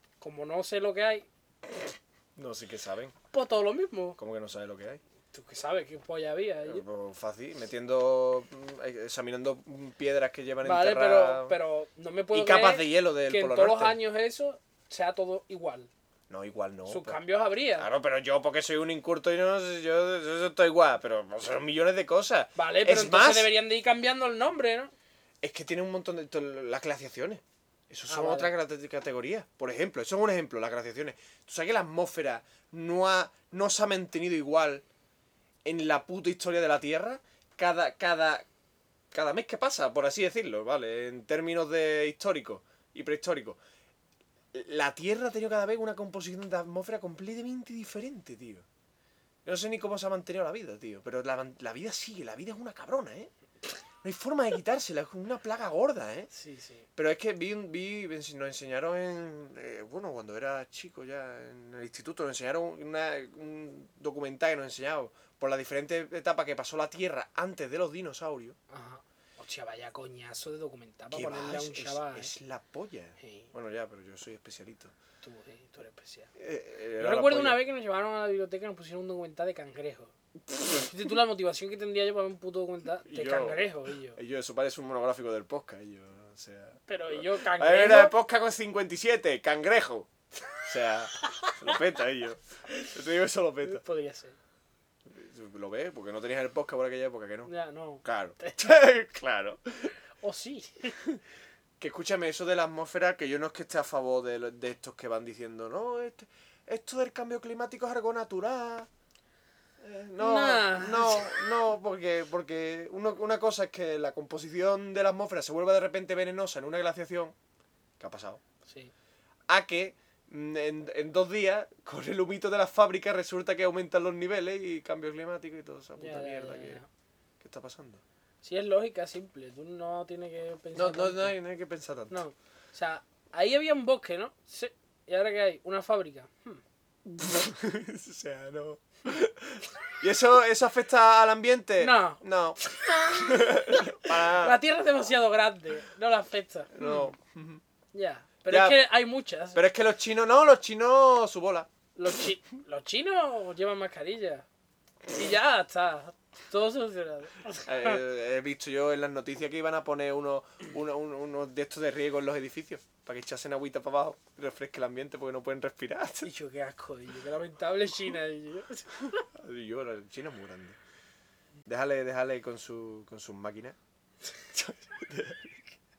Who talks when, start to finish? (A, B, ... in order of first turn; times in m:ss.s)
0:00.2-0:01.3 A
0:02.4-0:03.1 B
0:03.3-0:04.2 A
0:04.2-0:05.0 B
0:05.3-0:06.8 A
0:06.6-0:11.6 B
0:10.6-0:15.9 A
0:12.3-0:14.0 B
0:16.3-0:17.2 B
0:16.9-0:17.9 A
0:17.8-0:23.5 B
0:22.6-0:24.9 A
0:25.4-0:34.8 B
0:28.1-0:28.5 A
0:35.6-0:38.4 B
0:39.1-0:43.6 B
0:44.5-0:48.6 B
0:49.4-0:53.3 B
0:54.0-0:56.3 B
0:56.3-0:56.9 A
0:57.0-1:08.6 B
1:08.7-1:12.3 A
1:11.1-1:15.0 B
1:13.2-1:13.5 A
1:15.2-1:16.3 A
1:16.4-1:17.6 B
1:17.0-1:24.2 A
1:23.0-1:30.1 B
1:26.9-1:28.1 A
1:30.6-1:33.8 B
1:33.6-1:34.3 A
1:35.1-1:37.5 B
1:37.5-1:38.7 A
1:38.0-1:39.9 B
1:40.2-1:41.0 A
1:41.8-1:48.9 B
1:49.8-1:57.3 B
1:50.2-1:51.4 A
1:58.0-1:58.4 B
1:58.6-1:58.9 A
1:59.5-2:06.8 B
2:06.0-2:06.9 A
2:07.4-2:08.0 B
2:08.4-2:11.4 A
2:10.7-2:12.2 B
2:12.1-2:16.6 A
2:17.1-2:24.6 B
2:21.8-2:27.0 A
2:26.7-2:27.6 B
2:27.9-2:29.6 A
2:28.5-2:28.8 B
2:29.5-2:31.7 B
2:31.9-2:34.4 A
2:35.1-2:38.0 A
2:37.6-2:46.3 B
2:46.2-2:49.2 A
2:49.3-2:50.8 B
2:51.6-2:53.8 B
2:54.5-2:55.6 B